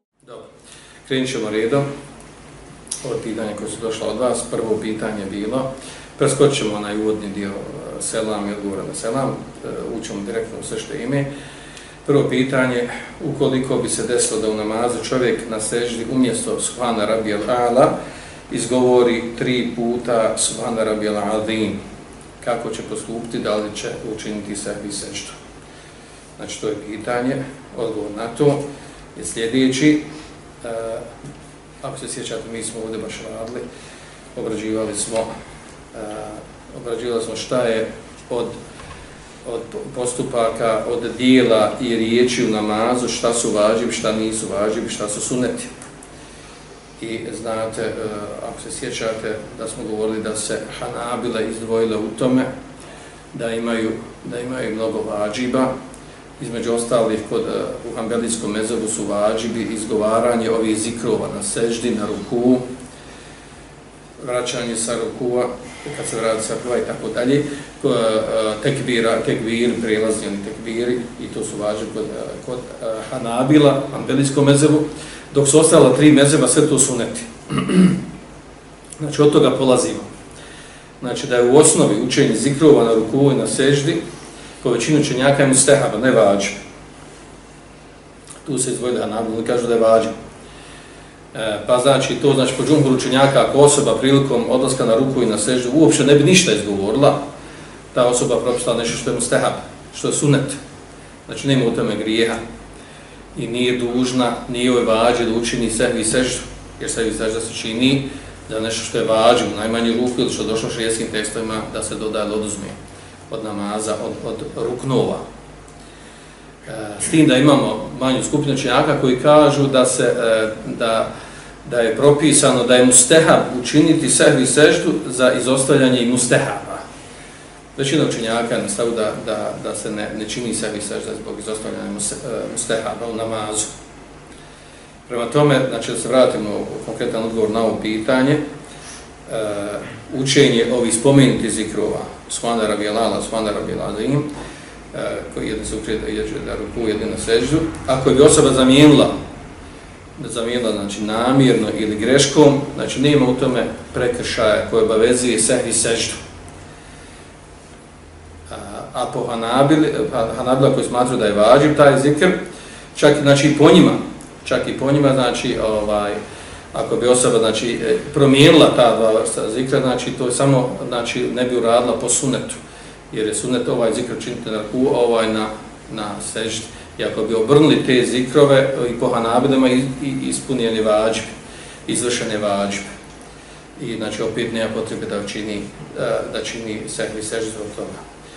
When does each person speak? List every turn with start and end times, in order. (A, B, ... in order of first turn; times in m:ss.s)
0:00.2-0:00.5 A
0:01.0-0:01.8 A
0:03.0-0:11.3 A
0:12.0-0:17.9 A
0:18.5-0:21.8 A
0:22.4-0:25.4 A
0:26.4-0:30.1 A
0:30.6-0:31.1 A
0:31.8-0:33.6 A
0:34.3-0:35.3 A
0:35.9-0:38.6 A
0:39.4-0:45.7 A
0:47.0-0:52.5 A
0:53.3-0:55.7 A
0:56.4-1:02.6 A
1:04.2-1:18.0 A
1:19.0-1:20.1 A
1:21.0-1:24.0 A
1:24.6-1:26.6 A
1:28.4-1:30.1 A
1:31.3-1:37.2 A
1:37.9-1:40.6 A
1:41.3-1:42.4 A
1:43.4-1:52.8 A
1:53.3-1:55.2 A
1:56.7-2:01.1 A
2:01.6-2:06.8 A
2:07.8-2:13.7 A
2:15.1-2:18.4 A
2:19.3-2:24.3 A
2:24.9-2:29.2 A
2:30.2-2:36.2 A
2:38.5-2:42.4 A
2:42.9-2:46.2 A
2:46.7-3:01.3 A
3:01.9-3:02.9 A
3:03.8-3:08.0 A